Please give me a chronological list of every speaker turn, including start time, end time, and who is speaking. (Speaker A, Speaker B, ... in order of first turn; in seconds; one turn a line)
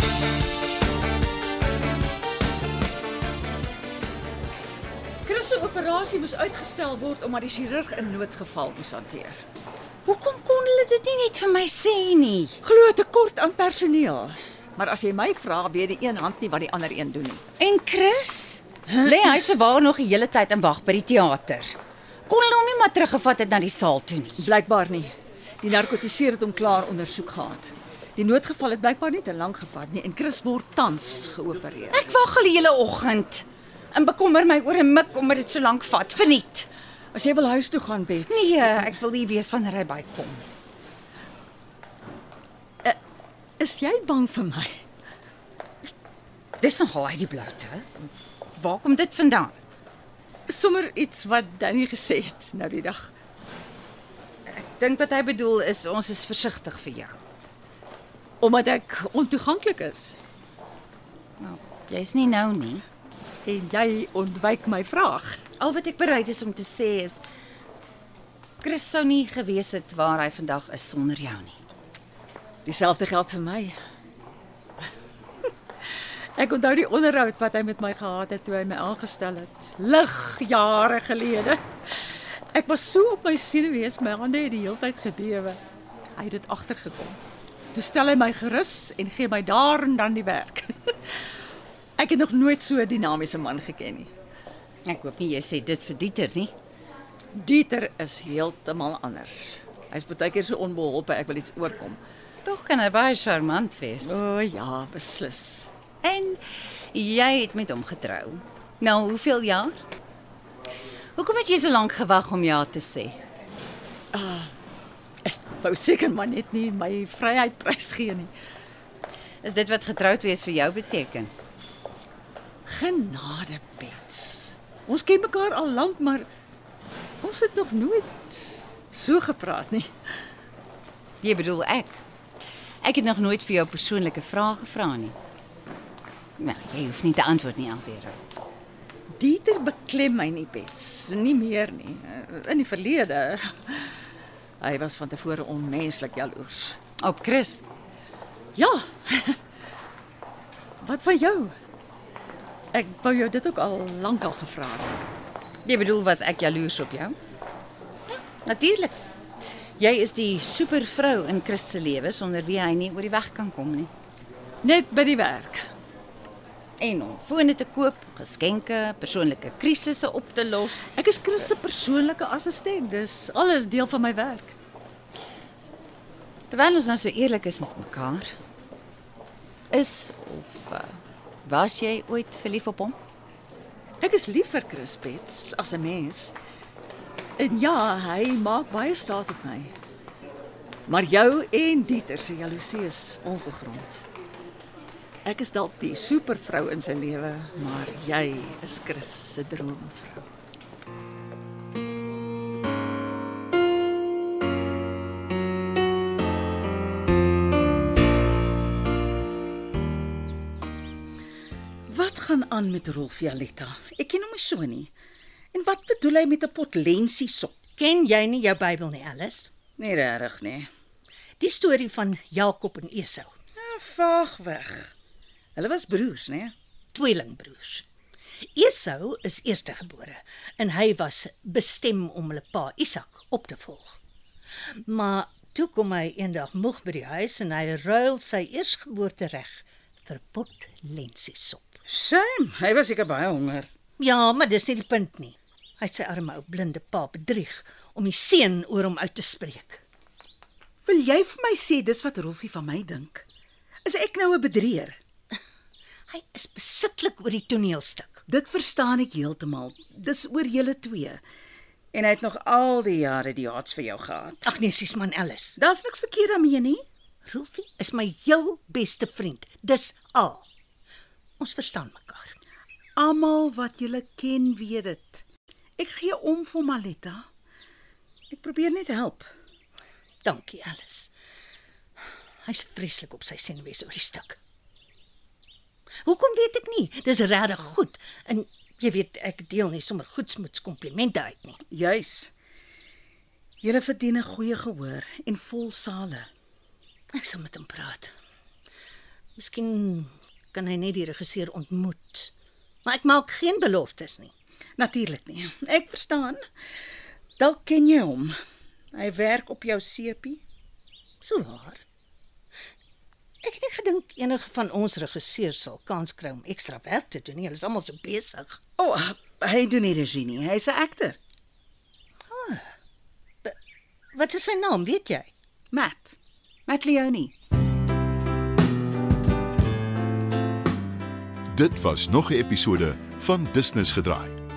Speaker A: 5.2-9.4
Speaker B: 10.1-12.6
Speaker A: 12.6-17.4
Speaker B: 17.6-21.7
Speaker A: 19.0-19.4
Speaker B: 22.3-24.4
Speaker A: 24.4-32.1
Speaker B: 31.9-36.7
Speaker A: 37.1-38.9
Speaker B: 38.3-40.5
Speaker A: 43.6-44.8
Speaker B: 46.6-49.6
Speaker A: 50.5-53.1
Speaker B: 54.5-57.1
Speaker A: 58.4-60.2
Speaker B: 61.4-62.8
Speaker A: 63.5-65.4
Speaker B: 65.6-67.2
Speaker B: 68.6-71.6
Speaker A: 72.6-73.8
Speaker A: 76.3-81.6
Speaker A: 82.5-85.6
Speaker A: 86.2-87.2
Speaker A: 87.7-91.0
Speaker A: 92.0-94.1
Speaker B: 94.9-96.5
Speaker A: 97.3-102.0
Speaker B: 102.4-104.1
Speaker A: 104.0-105.7
Speaker B: 106.0-106.4
Speaker B: 106.9-109.8
Speaker B: 111.2-113.2
Speaker A: 114.1-114.5
Speaker A: 115.2-118.3
Speaker B: 119.4-121.3
Speaker A: 122.7-126.3
Speaker A: 127.2-129.9
Speaker B: 131.2-132.0
Speaker B: 132.8-135.1
Speaker B: 136.4-138.2
Speaker A: 139.2-144.0
Speaker A: 144.6-146.8
Speaker B: 147.0-147.6
Speaker A: 148.6-149.4
Speaker A: 150.8-151.5
Speaker A: 152.7-154.9
Speaker B: 155.6-157.1
Speaker B: 158.4-158.9
Speaker B: 159.8-163.9
Speaker A: 164.6-165.7
Speaker B: 166.8-170.9
Speaker A: 170.9-174.5
Speaker B: 176.5-178.3
Speaker B: 179.7-183.0
Speaker A: 184.0-186.3
Speaker A: 187.4-189.7
Speaker A: 190.9-194.0
Speaker A: 195.2-200.3
Speaker C: 211.9-214.9
Speaker C: 215.5-217.6
Speaker D: 217.8-219.5
Speaker C: 219.8-220.7
Speaker D: 221.4-223.3
Speaker C: 223.6-224.9
Speaker C: 225.6-226.5
Speaker D: 226.9-227.8
Speaker D: 228.6-233.9
Speaker D: 234.8-241.8
Speaker C: 241.9-243.7
Speaker D: 244.0-249.8
Speaker C: 250.8-253.2
Speaker C: 253.8-255.0
Speaker D: 256.1-258.2
Speaker C: 258.3-261.2
Speaker C: 261.9-264.5
Speaker D: 264.4-265.6
Speaker C: 265.6-266.8
Speaker D: 267.3-270.5
Speaker D: 271.4-272.4
Speaker C: 273.0-275.2
Speaker C: 275.8-277.2
Speaker C: 278.3-279.3
Speaker D: 280.2-281.1
Speaker D: 282.4-284.4
Speaker D: 286.0-291.6
Speaker C: 291.7-292.3
Speaker C: 293.6-296.3
Speaker D: 297.1-298.1
Speaker D: 299.4-302.3
Speaker D: 302.8-304.3
Speaker C: 304.8-306.4
Speaker C: 307.4-308.4
Speaker C: 308.9-310.4
Speaker D: 311.2-311.8
Speaker D: 313.4-318.6
Speaker C: 318.8-321.2
Speaker D: 322.3-322.6
Speaker D: 324.1-325.3
Speaker C: 325.7-326.1
Speaker C: 326.7-327.3
Speaker E: 331.5-334.4